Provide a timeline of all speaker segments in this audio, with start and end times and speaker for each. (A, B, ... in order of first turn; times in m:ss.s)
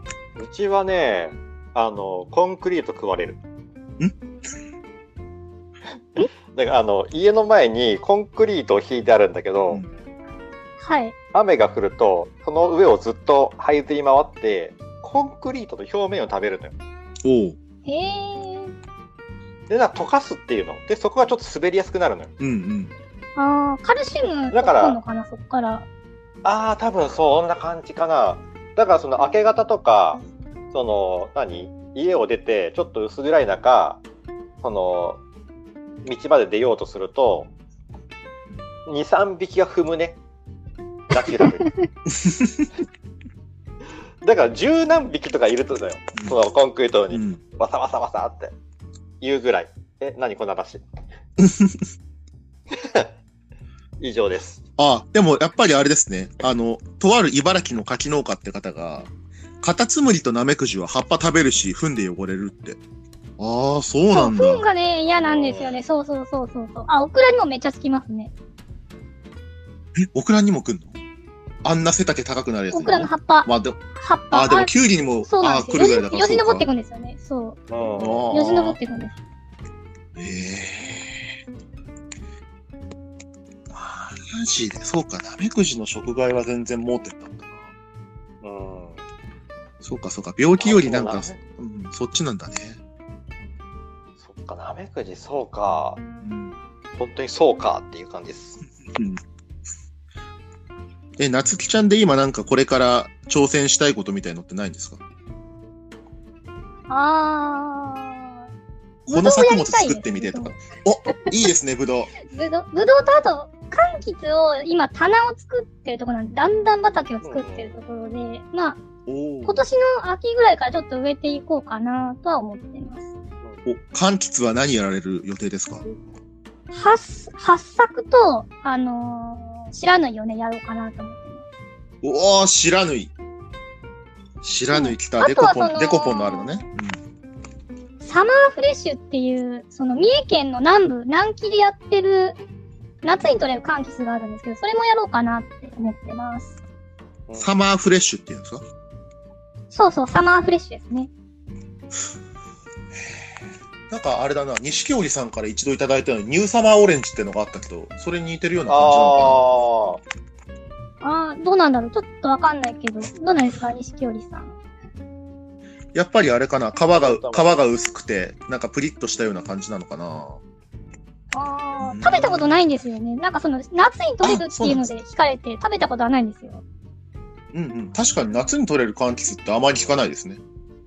0:00.4-0:03.4 A
0:06.2-0:09.8 A
0:10.8-0:11.2 B
0:11.3-0:16.8 A
0:17.2-0:17.6 C
0:17.9-0:18.7 B
0:19.7-0:22.3 A
0:22.4-0:22.9 C
0:23.4-0:25.9 B
0:24.5-0:25.0 A
0:26.4-0:30.2 A
0:30.7-0:34.0 A
0:34.6-0:35.2 A
0:36.0-0:37.5 A
0:38.9-0:40.2 A
0:41.1-0:41.7 A
0:42.2-0:42.7 C
0:44.2-0:48.5 A
0:47.1-0:47.4 C
0:49.2-0:50.8 A
0:51.4-0:51.9 C
0:52.7-0:53.1 A
0:54.0-0:54.6 A
0:54.8-0:59.1 C
0:59.6-1:02.8 C
1:03.4-1:04.6 C
1:04.1-1:08.3 B
1:05.2-1:05.8 A
1:10.0-1:10.9 C
1:11.6-1:13.8 C
1:12.7-1:14.7 B
1:14.3-1:16.6 C
1:15.2-1:17.6 B
1:17.7-1:18.3 A
1:18.0-1:18.8 C
1:18.3-1:19.2 B
1:20.2-1:21.4 C
1:23.7-1:27.7 C
1:28.4-1:29.0 A
1:29.8-1:32.8 C
1:30.6-1:31.4 A
1:34.2-1:36.0 A
1:36.2-1:36.6 C
1:37.0-1:38.6 A
1:39.0-1:39.2 C
1:41.2-1:45.0 C
1:46.9-1:48.5 B
1:49.1-1:52.1 C
1:49.1-1:50.6 B
1:52.2-1:58.8 B
1:57.2-1:57.8 A
1:59.1-1:59.6 C
1:59.4-2:03.1 B
2:03.7-2:05.8 C
2:06.7-2:11.4 B
2:12.0-2:13.1 C
2:14.4-2:17.0 C
2:14.7-2:16.7 B
2:18.0-2:22.4 B
2:23.0-2:26.6 B
2:27.3-2:27.5 A
2:27.4-2:28.6 C
2:29.7-2:31.1 B
2:33.9-2:39.4 C
2:38.7-2:40.0 A
2:41.0-2:44.6 B
2:46.0-2:50.4 C
2:47.0-2:47.6 A
2:51.3-2:56.6 B
2:51.8-2:52.5 C
2:54.2-2:55.0 C
2:57.5-3:00.4 C